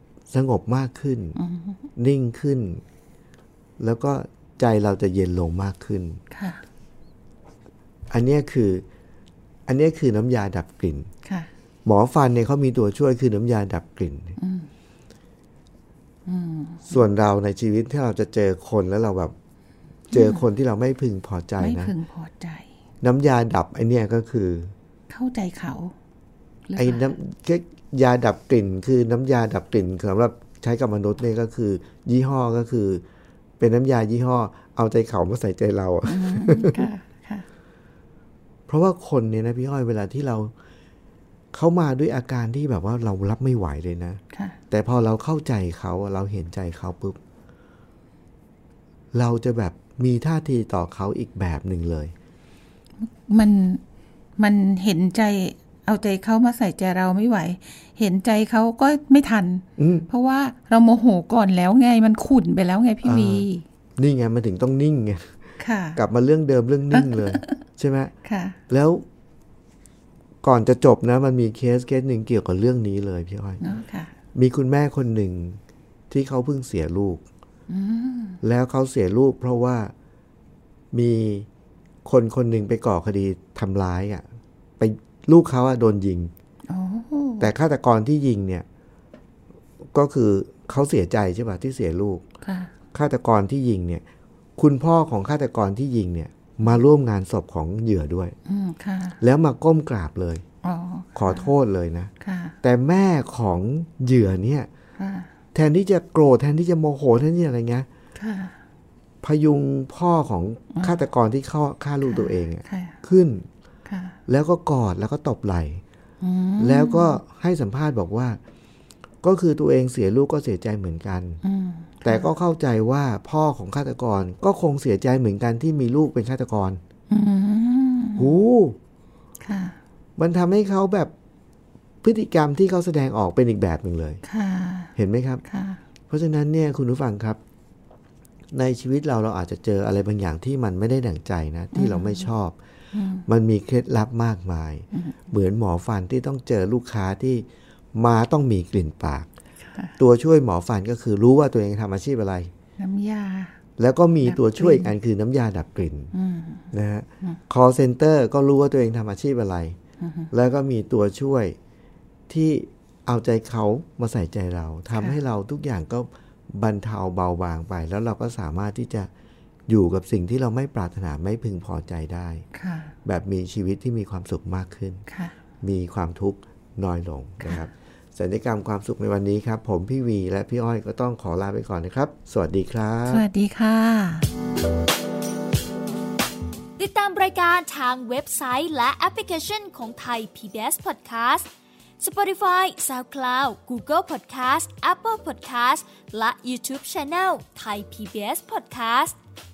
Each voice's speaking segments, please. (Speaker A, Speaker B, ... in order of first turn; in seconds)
Speaker A: 0.3-1.4, 1.9-2.8, 3.8-6.2, 8.1-8.8, 9.7-11.1, 11.8-14.4, 16.9-19.3, 20.1-21.9, 23.0-24.7, 26.8-33.0, 33.6-36.9, 38.7-40.5, 41.5-44.2, 44.7-47.2, 49.1-52.1, 59.8-60.1, 63.0-65.4, 66.0-68.1, 68.7-69.0, 70.4-73.6, 74.3-77.2, 78.4-79.9, 80.9-81.5, 82.0-84.2, 84.8-86.3, 87.4-88.7, 89.9-92.2, 92.9-94.0, 94.6-98.3, 99.2-100.4, 101.2-102.1, 102.6-104.7, 105.5-107.9, 109.2-113.5, 114.3-115.8, 116.6-118.4, 119.2-121.4, 122.0-126.8, 128.2-128.8, 130.2-131.1, 132.0-134.2, 134.9-135.4, 136.1-137.4, 138.5-142.6, 143.2-149.3, 150.0-152.5, 153.8-156.1, 156.7-159.8, 160.3-161.6, 162.3-169.1, 169.7-172.4, 173.1-175.0, 175.6-183.2
Speaker B: 1.4-1.8, 6.3-6.6, 11.2-11.5, 14.4-14.7, 16.2-17.0, 20.1-20.4, 21.6-22.7, 25.1-25.9, 26.7-27.1, 36.1-37.5, 44.3-44.6, 53.0-53.8, 54.4-63.6, 65.6-66.0, 66.9-67.5, 68.2-68.6, 73.6-74.1, 77.7-78.4, 86.7-87.5, 92.4-92.7, 98.5-99.2, 100.6-101.5, 102.2-102.6, 105.0-105.3, 108.2-108.5, 110.7-111.0, 112.1-113.0, 113.9-114.2, 116.2-117.2, 121.4-122.3, 127.1-128.3, 129.4-129.8, 134.2-134.9, 135.4-135.8, 141.7-142.3, 142.9-143.3, 144.9-145.2, 149.7-150.0, 152.8-153.6, 154.2-154.9, 156.1-156.7, 160.0-160.3, 172.5-172.9, 175.1-175.3, 177.4-177.7, 183.1-184.3
Speaker C: 186.8-191.5, 192.0-199.2